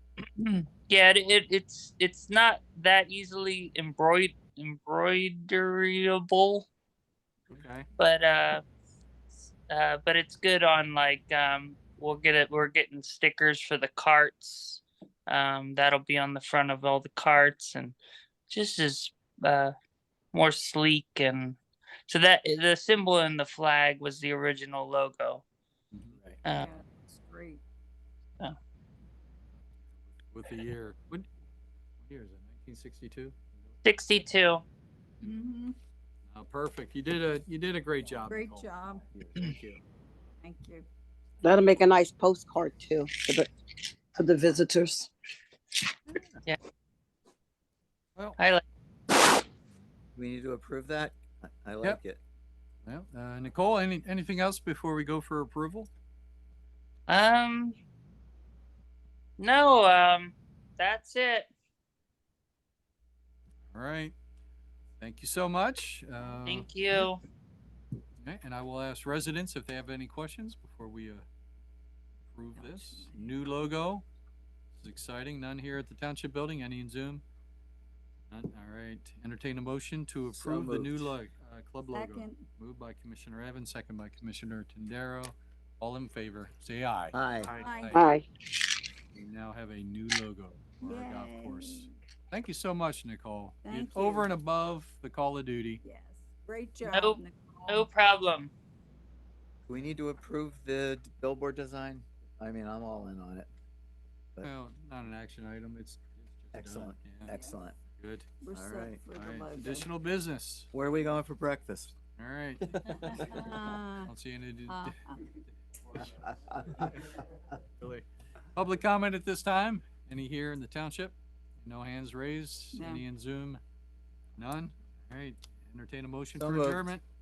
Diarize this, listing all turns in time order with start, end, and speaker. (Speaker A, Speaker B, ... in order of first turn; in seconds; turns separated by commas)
Speaker A: 0.4-6.7, Speaker B: 7.5-7.9, Speaker A: 8.0-8.6, Speaker A: 9.4-18.0, Speaker A: 18.5-19.7, Speaker A: 20.3-25.4, Speaker B: 25.9-26.2, Speaker C: 26.6-27.6, Speaker B: 30.3-31.2, Speaker B: 32.0-33.7, Speaker A: 33.8-34.6, Speaker C: 35.2-35.8, Speaker B: 36.3-39.8, Speaker C: 38.3-39.0, Speaker C: 40.4-40.9, Speaker D: 41.4-43.5, Speaker D: 44.1-45.1, Speaker A: 48.4-48.6, Speaker E: 50.1-52.2, Speaker B: 52.9-55.9, Speaker A: 57.1-57.7, Speaker A: 59.4-61.5, Speaker B: 63.7-64.1, Speaker B: 65.0-66.7, Speaker A: 66.5-67.2, Speaker B: 68.2-71.2, Speaker B: 72.3-74.0, Speaker C: 72.5-73.2, Speaker B: 74.8-77.2, Speaker B: 78.3-88.0, Speaker E: 80.3-81.1, Speaker C: 81.9-82.4, Speaker E: 87.1-87.5, Speaker C: 87.6-88.1, Speaker D: 87.9-88.2, Speaker B: 89.1-95.8, Speaker C: 90.8-91.9, Speaker C: 93.6-94.3, Speaker C: 95.8-97.9, Speaker A: 96.9-98.5, Speaker E: 99.7-103.5, Speaker B: 104.4-107.3, Speaker E: 106.5-107.8, Speaker C: 107.3-107.5, Speaker B: 108.0-108.3, Speaker C: 108.4-109.9, Speaker E: 108.5-109.0, Speaker B: 109.1-110.7, Speaker E: 110.7-111.9, Speaker B: 112.2-113.2, Speaker E: 112.7-113.3, Speaker C: 113.2-114.1, Speaker B: 114.0-117.2, Speaker C: 114.7-115.2, Speaker E: 116.0-117.3, Speaker B: 117.8-123.6, Speaker C: 122.7-123.0, Speaker B: 124.4-127.0, Speaker E: 126.3-126.8